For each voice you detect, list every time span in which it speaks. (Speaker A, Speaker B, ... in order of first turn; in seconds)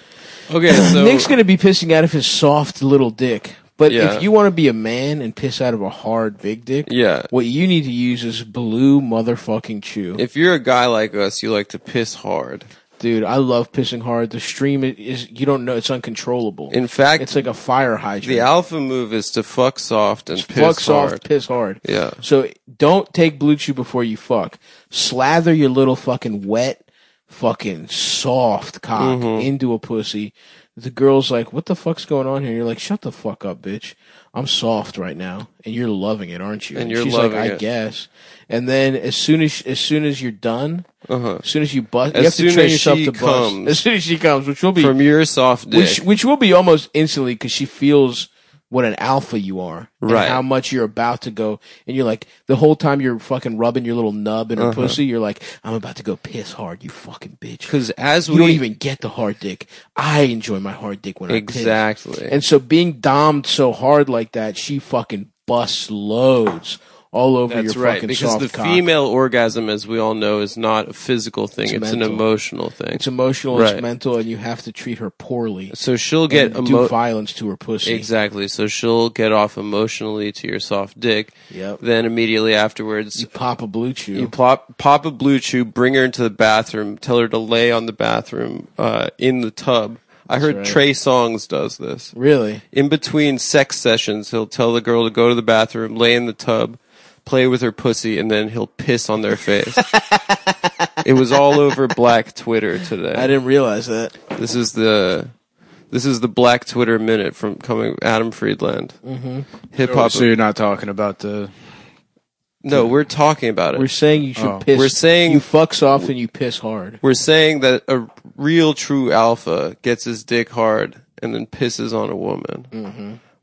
Speaker A: 0.5-1.3, 3.9-4.3, 6.8-7.3, 10.2-12.7, 16.7-17.4, 18.2-21.2, 21.8-22.2, 28.9-29.5, 36.7-37.6, 41.1-41.4, 42.1-43.8, 44.8-46.0, 50.0-50.4, 54.6-55.0, 57.7-58.6, 61.3-62.3, 67.5-73.8, 75.7-76.9, 77.8-83.3, 84.1-92.1, 92.7-99.8, 101.0-103.3, 104.3-105.3, 105.9-109.0, 109.7-110.3, 112.6-113.9, 114.7-115.5, 117.0-122.7
Speaker B: 0.7-10.2, 13.0-18.5, 20.3-40.9, 41.4-44.9, 45.7-57.7, 58.3-68.8, 71.6-72.2, 72.9-75.7, 76.3-78.1, 81.5-81.8, 83.2-84.3, 90.3-90.8, 92.1-92.6, 99.8-100.9, 103.1-104.2, 109.0-109.5, 113.7-117.0, 122.7-123.2
Speaker C: 109.8-111.8, 114.3-114.7